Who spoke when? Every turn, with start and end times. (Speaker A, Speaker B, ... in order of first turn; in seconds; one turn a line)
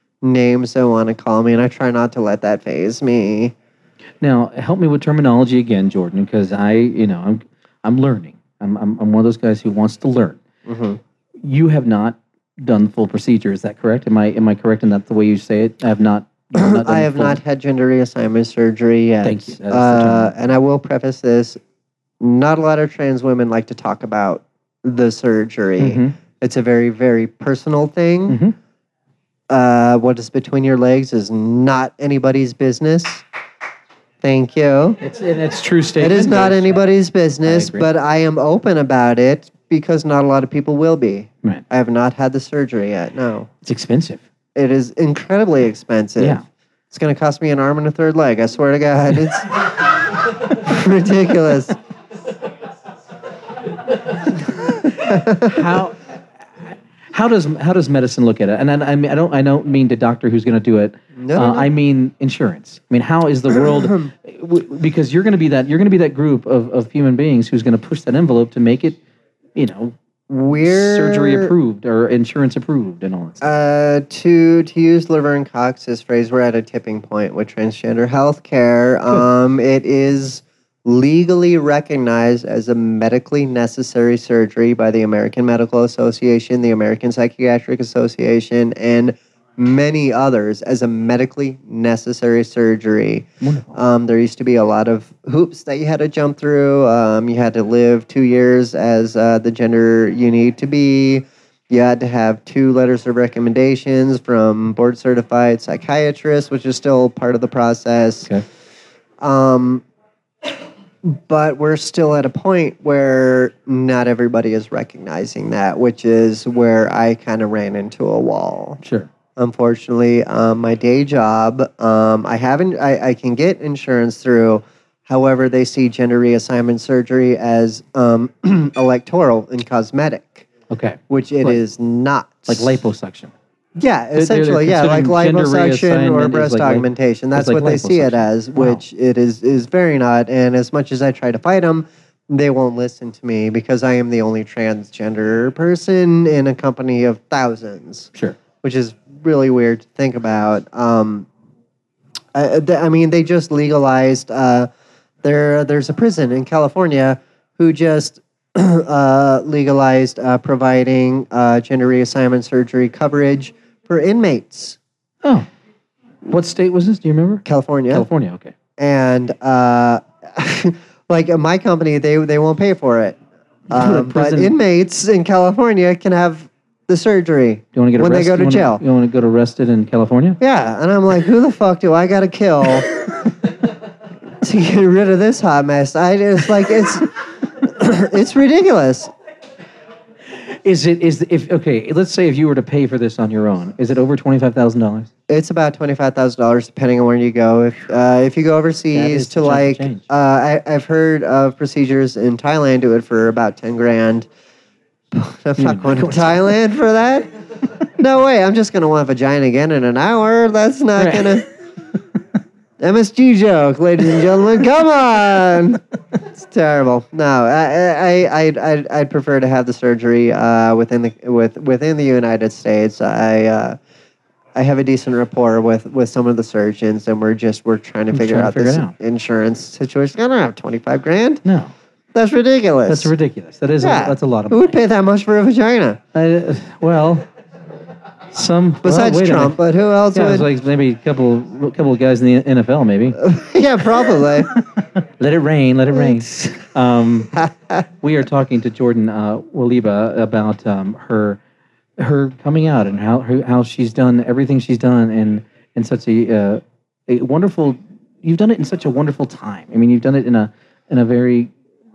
Speaker A: 0.2-3.5
Speaker B: 4.2-10.4
Speaker A: 10.7-11.0
Speaker B: 11.4-17.4
Speaker A: 16.5-21.6
Speaker B: 19.2-20.4
Speaker A: 22.2-28.4
Speaker B: 25.8-26.1
Speaker B: 28.3-28.5
Speaker A: 29.5-33.2
Speaker A: 34.2-35.0
Speaker B: 35.0-36.8
Speaker A: 36.0-43.5
Speaker B: 37.4-37.9
Speaker B: 43.6-44.2
Speaker A: 44.5-46.4
Speaker B: 46.2-46.4
Speaker A: 46.9-51.8
Speaker A: 54.6-55.6
Speaker B: 55.0-56.0
Speaker B: 57.1-69.0
Speaker A: 61.1-61.7
Speaker A: 63.5-64.1
Speaker B: 69.5-70.0
Speaker A: 70.3-71.5
Speaker B: 70.6-73.5
Speaker A: 73.4-108.3
Speaker B: 93.4-93.8
Speaker A: 109.2-109.8
Speaker A: 111.0-118.8
Speaker B: 118.8-119.1
Speaker A: 119.3-130.5
Speaker B: 130.7-131.6
Speaker A: 131.1-132.8
Speaker B: 132.5-133.3
Speaker A: 133.8-148.1
Speaker B: 134.1-138.8
Speaker A: 148.6-151.3
Speaker A: 152.3-154.7
Speaker A: 155.2-164.8
Speaker B: 166.2-168.5
Speaker A: 167.4-168.1
Speaker A: 168.8-173.2
Speaker A: 173.7-178.8
Speaker B: 173.7-174.5
Speaker B: 177.7-180.4
Speaker A: 180.4-182.9
Speaker A: 184.4-189.1
Speaker B: 190.4-195.1
Speaker A: 195.3-204.3
Speaker B: 198.9-200.1
Speaker A: 205.1-207.3
Speaker B: 205.6-206.5
Speaker A: 207.9-211.4
Speaker B: 211.0-211.4
Speaker A: 212.8-223.8
Speaker A: 224.5-231.4
Speaker B: 228.1-228.9
Speaker B: 231.4-231.7
Speaker A: 232.1-233.1
Speaker B: 232.9-234.8
Speaker A: 233.8-236.0
Speaker B: 236.1-237.2
Speaker B: 238.3-239.6
Speaker A: 238.8-240.5
Speaker B: 240.1-243.2
Speaker A: 243.2-244.5
Speaker B: 244.6-247.4
Speaker B: 248.0-251.4
Speaker B: 252.0-261.5